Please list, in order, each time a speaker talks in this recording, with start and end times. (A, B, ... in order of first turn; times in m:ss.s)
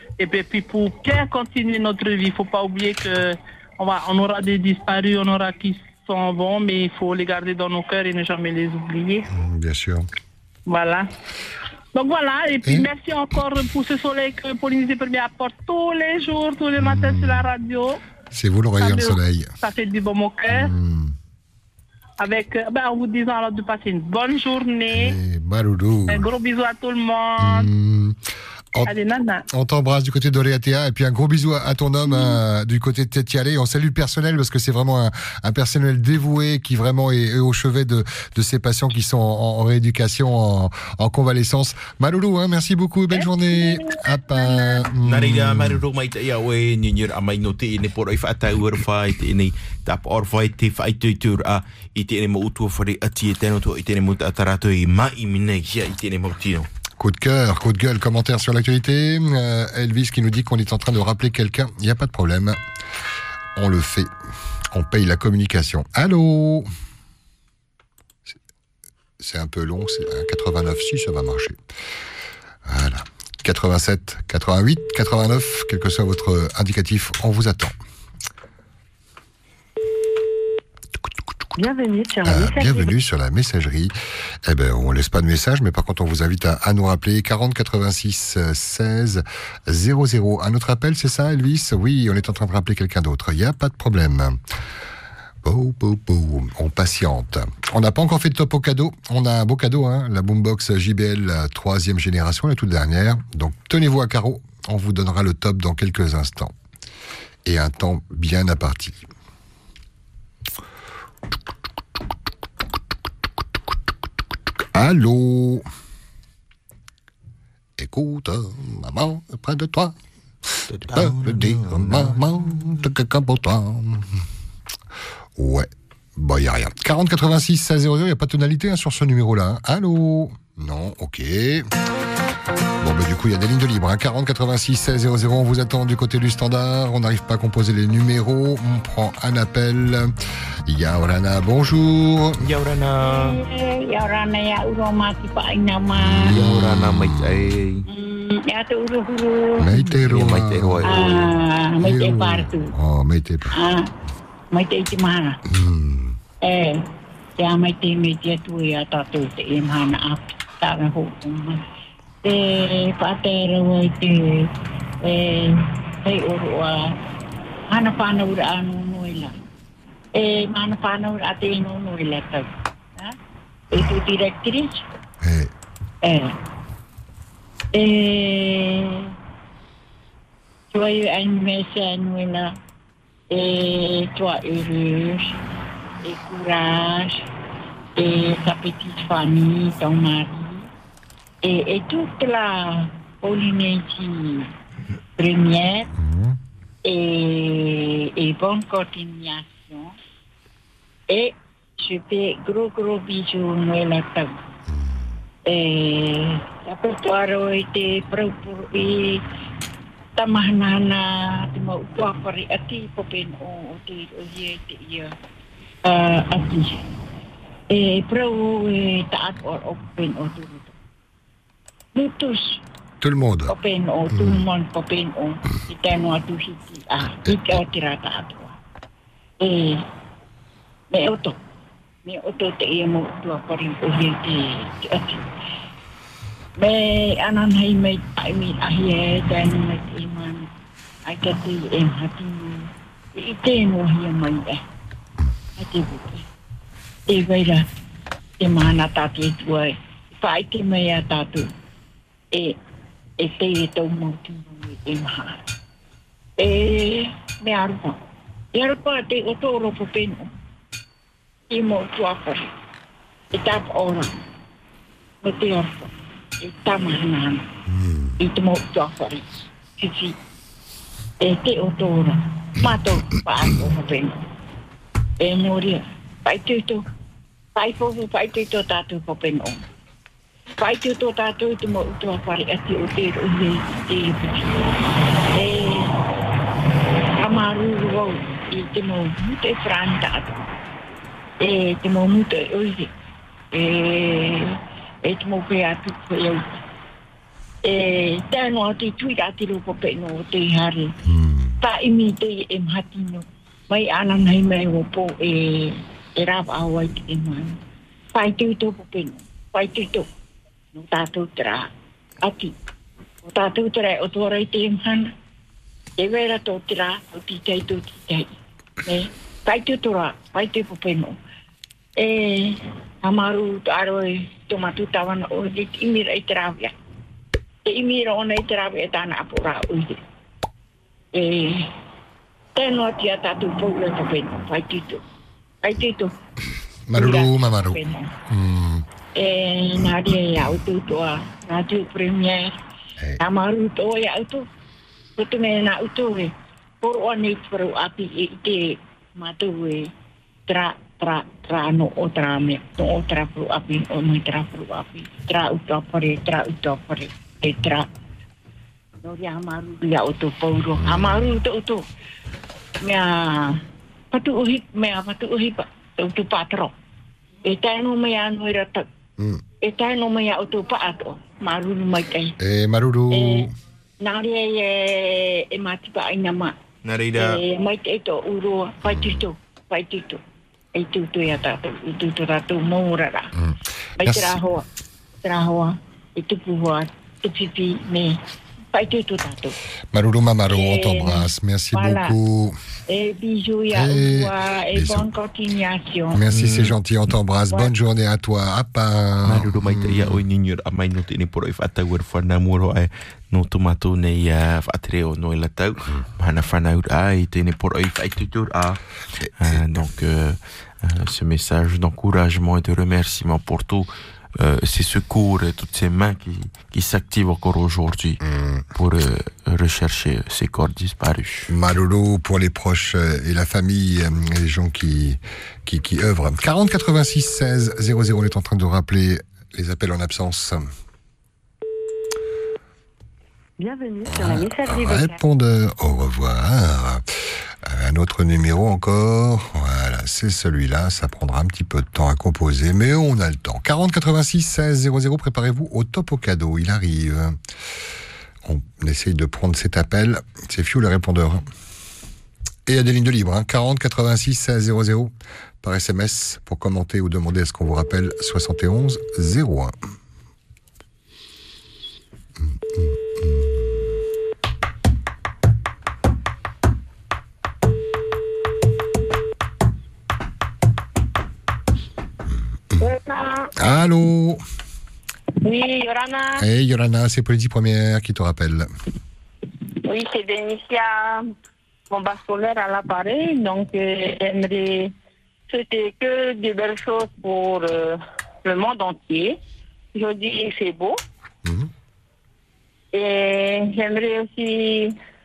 0:00.2-0:09.3 A
0:09.3-0:10.1 B
0:10.7-0:11.1 A
0:12.0-0:18.0 A
0:16.8-0:17.5 B
0:18.3-0:19.5 B
0:18.8-0:20.7 A
0:20.5-0:21.1 B
0:22.2-0:25.2 A
0:24.9-0:26.3 B
0:26.1-0:27.7 A
0:27.4-0:28.2 B
0:28.8-0:29.4 A
0:29.5-0:45.8 B
0:45.0-0:56.7 C
0:57.0-1:02.6 B
1:03.6-1:04.1 B
1:04.7-1:06.7 B
1:09.2-1:11.6 B
1:12.7-1:17.8 B
1:21.6-1:22.7 D
1:22.2-1:23.9 B
1:22.4-1:22.9 E
1:24.4-1:34.4 B
1:35.4-1:46.5 B
1:47.4-1:49.1 B
1:54.7-1:55.6 B
1:57.8-2:00.0 B
2:00.7-2:02.3 C
2:00.9-2:04.1 B
2:05.4-2:11.7 B
2:12.8-2:20.1 B
2:20.7-2:22.4 B
2:22.4-2:23.4 C
2:23.0-2:26.2 E
2:26.0-2:27.3 B
2:26.1-2:27.9 C
2:27.9-2:29.8 E
2:29.6-2:31.1 B
2:29.9-2:31.2 C
2:30.8-2:32.7 E
2:31.8-2:33.6 B
2:33.5-2:33.9 E
2:34.5-2:35.4 E
2:35.5-2:36.2 B
2:36.4-2:36.8 E
2:37.4-2:41.6 E
2:42.2-2:44.5 E
2:45.0-2:47.0 E
2:47.7-2:49.3 E
2:50.2-2:53.2 E
2:53.7-2:54.9 E
2:55.2-2:55.5 B
2:56.0-2:56.4 E
2:57.7-2:59.2 E
3:00.7-3:02.6 E
3:03.3-3:05.3 E
3:06.0-3:07.2 E
3:08.0-3:10.7 E
3:11.4-3:14.5 E
3:15.2-3:15.9 E
3:16.0-3:16.4 B
3:16.8-3:19.9 E
3:21.1-3:24.4 E
3:25.5-3:29.2 E
3:30.2-3:35.2 E
3:35.8-3:36.8 E
3:37.7-3:40.8 E
3:42.0-3:42.6 E
3:43.0-3:43.6 B
3:43.5-3:48.6 E
3:44.1-3:44.4 B
3:49.4-3:49.8 E
3:50.9-3:51.4 E
3:52.0-3:55.3 E
3:56.6-4:00.5 E
4:01.0-4:04.6 E
4:05.6-4:06.2 E
4:07.1-4:07.7 E
4:08.4-4:11.5 E
4:12.3-4:12.6 E
4:13.2-4:15.4 E
4:16.4-4:18.0 E
4:18.5-4:20.3 E
4:21.5-4:22.5 E
4:23.3-4:24.1 E
4:25.2-4:27.5 E
4:28.2-4:29.2 E
4:29.8-4:30.2 E
4:31.2-4:34.2 E
4:35.2-4:36.8 E
4:37.6-4:39.6 E
4:40.6-4:44.6 E
4:45.3-4:46.0 E
4:47.2-4:50.4 E
4:51.4-4:52.9 E
4:53.5-4:56.4 E
4:57.6-5:00.9 E
5:01.1-5:01.5 B
5:01.6-5:07.6 E
5:08.1-5:10.1 E
5:10.7-5:11.7 E
5:12.2-5:12.6 E
5:13.2-5:15.1 E
5:16.0-5:18.3 E
5:18.8-5:21.2 E
5:22.0-5:26.7 E
5:27.6-5:30.0 E
5:31.1-5:31.7 E
5:32.6-5:35.0 E
5:35.6-5:36.2 E
5:36.9-5:38.8 B
5:36.9-5:38.1 E
5:39.2-5:42.6 E
5:43.2-5:44.5 E
5:45.2-5:49.9 E
5:50.5-5:57.9 E
5:59.0-6:01.9 E
6:00.8-6:01.3 B
6:02.8-6:06.7 E
6:07.4-6:08.9 E
6:09.6-6:12.4 E
6:12.4-6:13.5 B
6:13.1-6:13.5 E
6:14.0-6:16.6 E
6:16.8-6:17.4 C
6:17.2-6:20.2 E
6:18.9-6:19.3 B
6:20.8-6:23.3 E
6:23.4-6:24.4 B
6:24.0-6:24.6 E
6:25.2-6:28.2 E
6:28.7-6:29.6 E
6:29.9-6:32.6 B
6:30.5-6:32.2 E
6:32.9-6:36.2 E
6:33.7-6:35.1 B
6:36.1-6:40.2 B
6:36.3-6:36.8 C
6:39.2-6:48.8 C
6:49.4-6:58.2 C
6:58.2-6:58.6 B
6:58.8-7:01.5 C
7:01.5-7:10.7 B
7:13.6-7:15.2 D
7:14.1-7:17.0 B
7:17.6-7:27.4 B
7:28.4-7:31.4 B
7:32.7-7:39.7 B
7:42.4-7:43.7 B
7:52.8-7:53.5 F
7:53.6-7:54.4 B
7:55.4-7:56.4 F
7:56.4-7:58.7 B
7:59.8-8:01.2 F
8:01.9-8:04.9 F
8:05.5-8:09.4 F
8:09.9-8:11.0 F
8:12.9-8:15.0 F